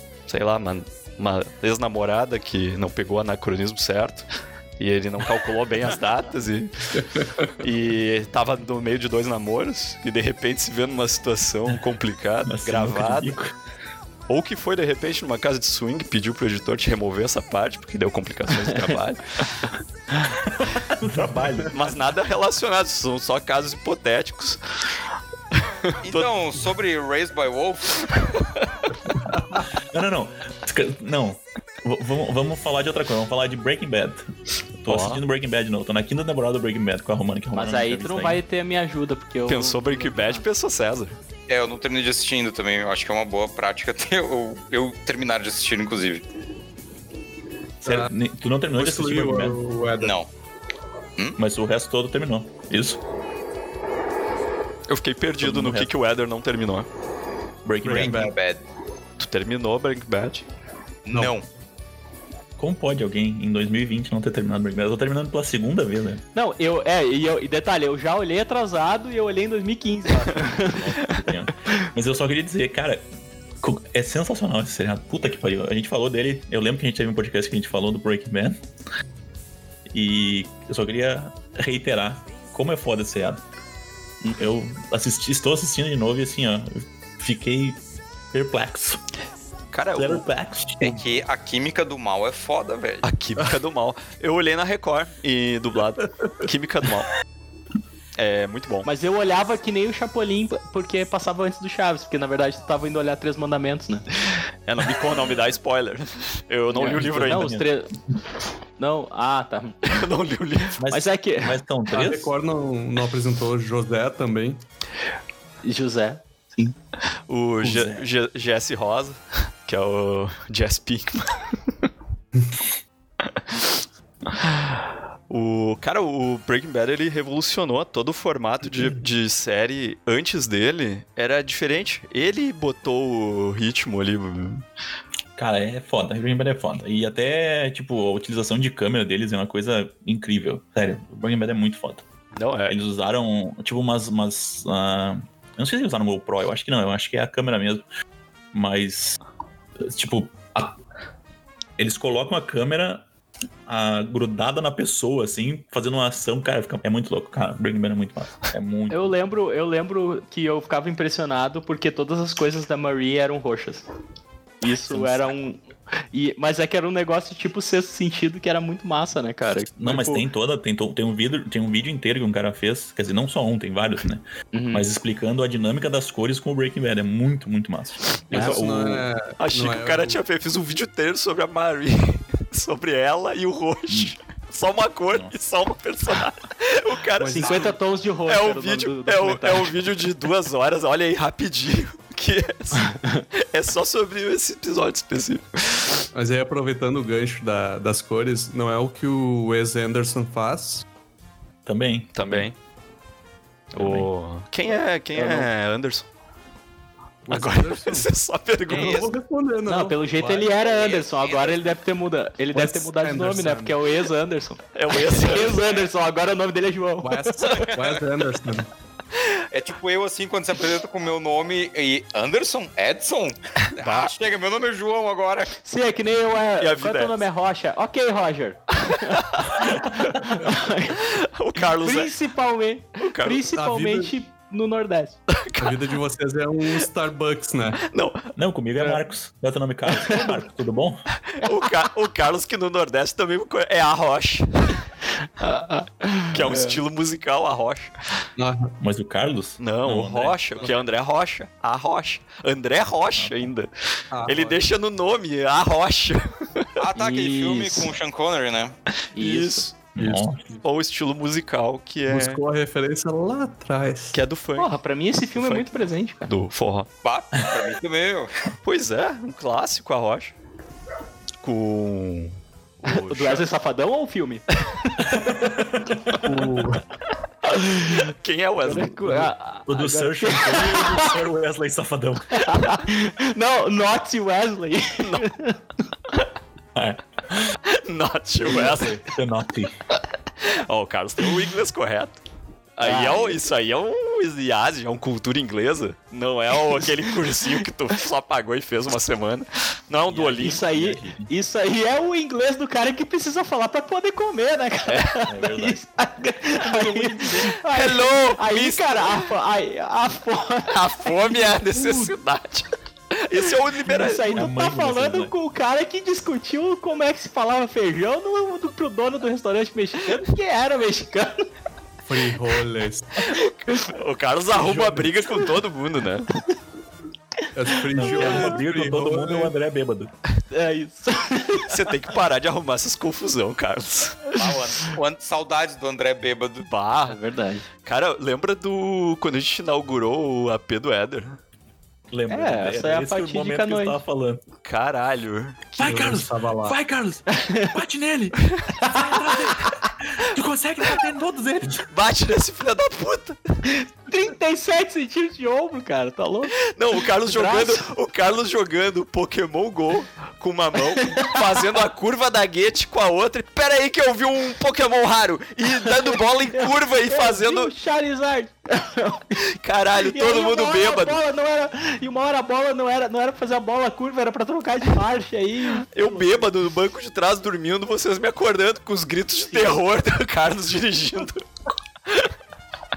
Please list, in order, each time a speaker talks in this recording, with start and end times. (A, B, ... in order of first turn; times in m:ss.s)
0:00.3-0:04.2 A
0:04.8-0:06.7 A
0:07.0-0:07.2 B
0:07.5-0:13.4 A
0:12.5-0:13.5 C
0:14.3-0:19.7 A
0:20.4-0:21.8 C
0:21.7-0:24.6 A
0:25.5-0:26.3 A
0:26.0-0:28.1 D
0:28.3-0:28.7 A
0:29.5-0:34.3 C
0:34.8-0:38.4 C
0:34.9-0:35.2 A
0:37.5-0:40.4 E
0:39.5-0:41.2 A
0:41.5-0:46.2 D
0:47.8-0:49.6 C
0:47.8-0:48.1 B
0:48.7-0:50.2 B
0:50.0-0:50.3 D
0:51.4-0:53.0 C
0:54.9-0:56.9 A
0:55.4-0:55.9 C
0:57.6-0:58.3 C
0:57.8-0:58.3 B
0:58.0-0:58.6 D
0:59.2-1:00.4 A
1:01.0-1:01.5 D
1:02.6-1:06.2 C
1:06.3-1:10.9 E
1:10.6-1:13.1 C
1:13.6-1:18.6 C
1:19.9-1:23.4 C
1:24.4-1:27.8 C
1:28.3-1:29.0 C
1:29.7-1:30.2 A
1:29.9-1:31.0 C
1:30.8-1:33.0 D
1:33.0-1:37.1 A
1:38.2-1:38.9 A
1:38.8-1:44.1 E
1:44.6-1:47.5 A
1:46.7-1:47.9 E
1:46.9-1:47.7 C
1:48.8-1:50.0 E
1:49.9-1:50.8 A
1:50.8-1:52.3 C
1:50.9-1:51.6 E
1:51.9-1:54.6 B
1:55.6-1:56.7 E
1:57.3-2:01.6 A
1:57.6-1:58.0 C
2:03.2-2:03.8 A
2:04.3-2:14.6 A
2:15.4-2:22.0 C
2:22.3-2:22.8 A
2:22.7-2:27.8 C
2:28.5-2:29.2 C
2:29.8-2:30.8 C
2:31.8-2:33.0 C
2:33.7-2:39.2 C
2:38.9-2:43.8 E
2:44.6-2:50.2 E
2:44.8-2:45.3 C
2:49.8-2:59.1 C
2:54.5-2:54.8 E
2:58.3-3:00.2 B
2:59.4-3:07.7 A
3:05.1-3:05.3 C
3:07.2-3:07.7 B
3:07.3-3:09.7 E
3:08.2-3:16.1 A
3:12.9-3:13.2 E
3:16.1-3:20.8 B
3:21.6-3:22.5 C
3:22.2-3:22.5 A
3:23.7-3:26.0 A
3:23.8-3:24.1 C
3:25.2-3:25.5 E
3:27.2-3:28.1 B
3:27.3-3:29.1 A
3:28.7-3:30.5 B
3:28.7-3:29.1 D
3:29.7-3:37.4 E
3:30.5-3:31.7 D
3:32.5-3:33.8 B
3:34.7-3:35.6 A
3:35.3-3:35.9 D
3:37.0-3:38.7 B
3:37.6-3:38.0 D
3:39.5-3:45.6 D
3:43.8-3:44.1 A
3:45.6-3:51.1 E
3:46.6-3:47.2 A
3:48.9-3:49.6 A
3:51.0-3:52.1 A
3:51.6-3:55.2 E
3:53.0-3:53.4 A
3:53.5-3:54.1 B
3:55.3-3:55.8 A
3:55.6-3:57.8 B
3:57.8-3:58.3 A
3:58.4-4:01.0 C
3:59.9-4:00.4 E
4:01.4-4:04.9 A
4:05.4-4:06.8 E
4:06.3-4:07.9 A
4:08.4-4:08.7 B
4:08.8-4:10.7 C
4:09.6-4:16.7 A
4:13.2-4:13.5 C
4:14.1-4:14.6 B
4:16.8-4:18.7 D
4:16.9-4:17.9 E
4:19.1-4:19.7 E
4:19.2-4:19.8 A
4:19.9-4:20.4 C
4:20.0-4:20.6 B
4:20.6-4:22.4 A
4:22.1-4:24.2 B
4:24.1-4:24.7 A
4:24.6-4:26.3 E
4:25.3-4:26.9 A
4:27.0-4:28.3 D
4:28.6-4:30.3 A
4:31.4-4:33.5 A
4:32.8-4:36.2 E
4:35.1-4:36.0 C
4:36.2-4:36.8 B
4:37.4-4:39.2 A
4:37.5-4:38.1 E
4:38.6-4:41.2 E
4:39.7-4:42.6 C
4:42.3-4:45.6 E
4:45.0-4:45.3 A
4:46.7-4:47.6 C
4:47.6-4:49.0 A
4:48.5-4:49.8 C
4:50.4-4:52.2 A
4:52.8-5:00.6 A
4:52.8-4:53.4 E
5:00.1-5:01.3 C
5:00.4-5:12.1 E
5:05.2-5:05.8 C
5:06.8-5:09.3 A
5:06.8-5:07.3 C
5:10.7-5:14.4 A
5:13.8-5:21.4 E
5:14.3-5:15.3 C
5:22.1-5:23.2 B
5:23.2-5:26.3 A
5:24.5-5:25.2 C
5:27.5-5:29.5 B
5:27.9-5:30.1 C
5:30.5-5:31.8 E
5:31.7-5:34.6 A
5:34.4-5:36.7 D
5:36.6-5:37.2 A
5:37.0-5:37.7 E
5:37.8-5:41.4 A
5:42.1-5:44.4 C
5:42.3-5:44.0 E
5:44.6-5:45.7 A
5:45.8-5:51.9 C
5:45.8-5:46.8 B
5:47.3-5:47.7 E
5:48.8-5:49.2 E
5:51.9-5:53.4 A
5:53.8-5:56.5 E
5:56.6-6:07.7 A
5:57.2-5:57.8 E
6:00.8-6:01.4 E
6:06.5-6:09.4 E
6:09.5-6:11.2 A
6:10.0-6:16.4 E
6:15.9-6:21.4 A